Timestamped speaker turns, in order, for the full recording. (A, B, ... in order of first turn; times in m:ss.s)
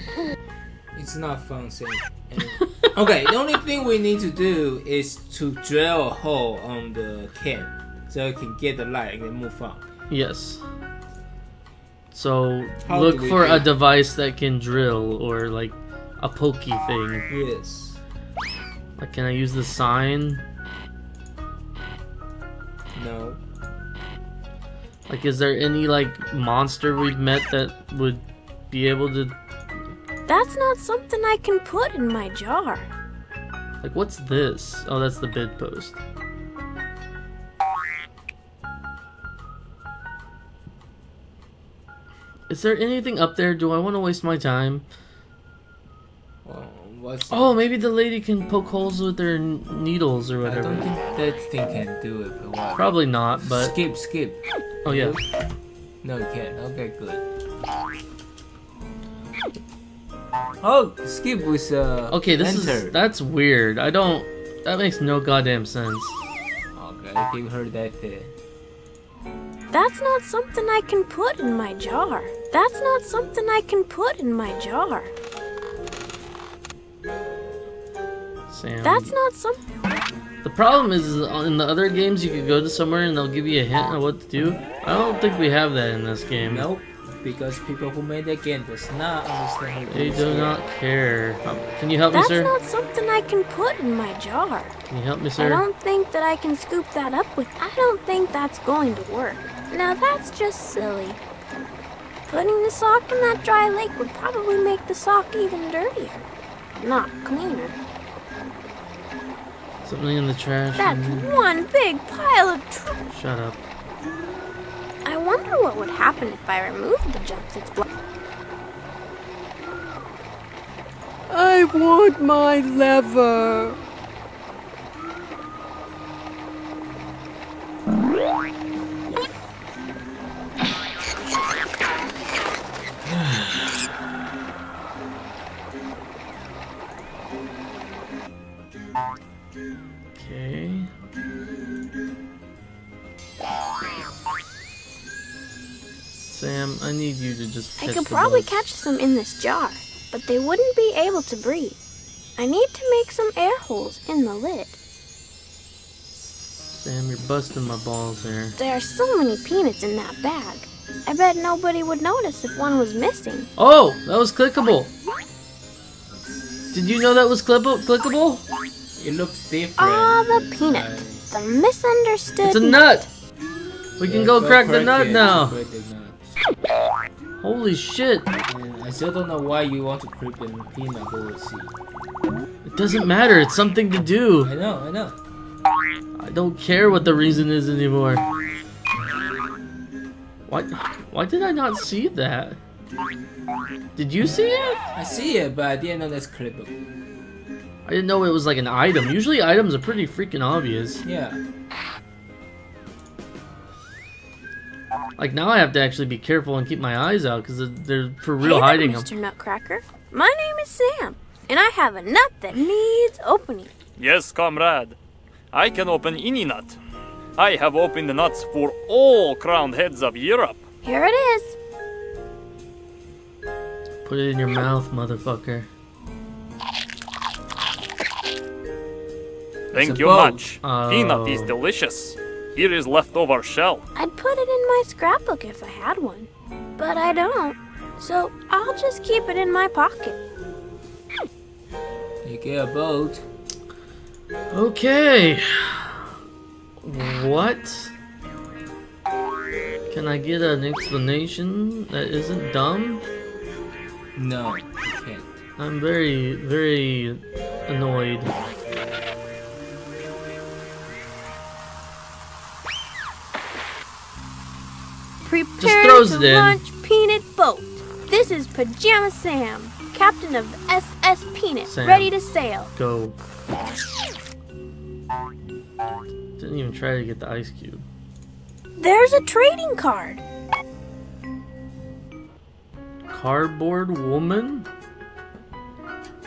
0:00.9-0:09.9 A
0:10.1-0:10.6 B
0:12.1-0:17.3 B
0:12.8-0:13.7 A
0:17.3-0:18.0 A
0:19.0-0:20.4 B
0:22.9-0:23.4 A
0:25.1-0:29.4 B
0:30.3-0:32.9 C
0:33.8-0:36.0 B
0:42.5-0:44.8 B
0:46.4-0:47.5 A
0:47.3-0:50.9 B
0:50.4-0:52.9 A
0:52.7-0:53.7 B
0:53.4-0:55.2 A
0:54.8-0:55.2 B
0:56.0-0:57.2 A
1:00.6-1:02.9 A
1:02.1-1:06.2 B
1:06.7-1:08.3 A
1:09.7-1:15.1 C
1:18.5-1:19.1 B
1:18.8-1:19.6 C
1:20.4-1:26.7 B
1:26.4-1:30.5 A
1:29.9-1:32.5 B
1:32.1-1:34.8 C
1:34.9-1:35.6 B
1:35.4-1:41.2 C
1:42.3-1:46.2 C
1:46.8-1:47.8 C
1:49.8-1:51.3 B
1:50.8-1:53.0 C
1:53.1-1:53.6 B
1:55.0-1:57.8 C
2:01.3-2:03.8 D
2:13.0-2:13.9 B
2:20.2-2:20.9 B
2:26.3-2:28.6 B
2:27.8-2:31.8 C
2:32.4-2:34.8 C
2:36.7-2:38.5 B
2:38.6-2:43.5 C
2:43.6-2:44.9 B
2:46.7-2:48.4 B
2:49.0-2:51.2 A
2:49.8-2:53.0 C
2:52.4-2:53.1 B
2:54.0-2:55.6 B
2:54.0-2:56.4 A
2:57.4-2:58.3 B
2:58.5-3:01.7 A
3:02.6-3:04.5 B
3:04.4-3:05.2 A
3:06.2-3:08.2 B
3:10.5-3:12.6 B
3:14.0-3:14.8 B
3:14.9-3:16.8 A
3:17.8-3:21.0 B
3:21.0-3:21.4 A
3:25.2-3:29.1 B
3:28.4-3:33.7 C
3:34.0-3:35.0 E
3:35.5-3:36.8 E
3:37.4-3:40.6 E
3:40.8-3:41.6 C
3:44.0-3:45.7 B
3:49.7-3:50.5 A
3:49.7-3:53.8 E
3:50.6-3:51.5 B
3:53.9-4:00.2 C
4:02.2-4:03.2 A
4:04.5-4:06.1 B
4:06.8-4:07.9 B
4:09.9-4:13.0 B
4:14.2-4:15.4 A
4:15.6-4:18.3 B
4:25.2-4:32.7 C
4:25.6-4:26.6 B
4:31.7-4:32.1 B
4:32.7-4:33.2 B
4:36.4-4:37.8 B
4:38.8-4:40.2 C
4:43.1-4:44.7 B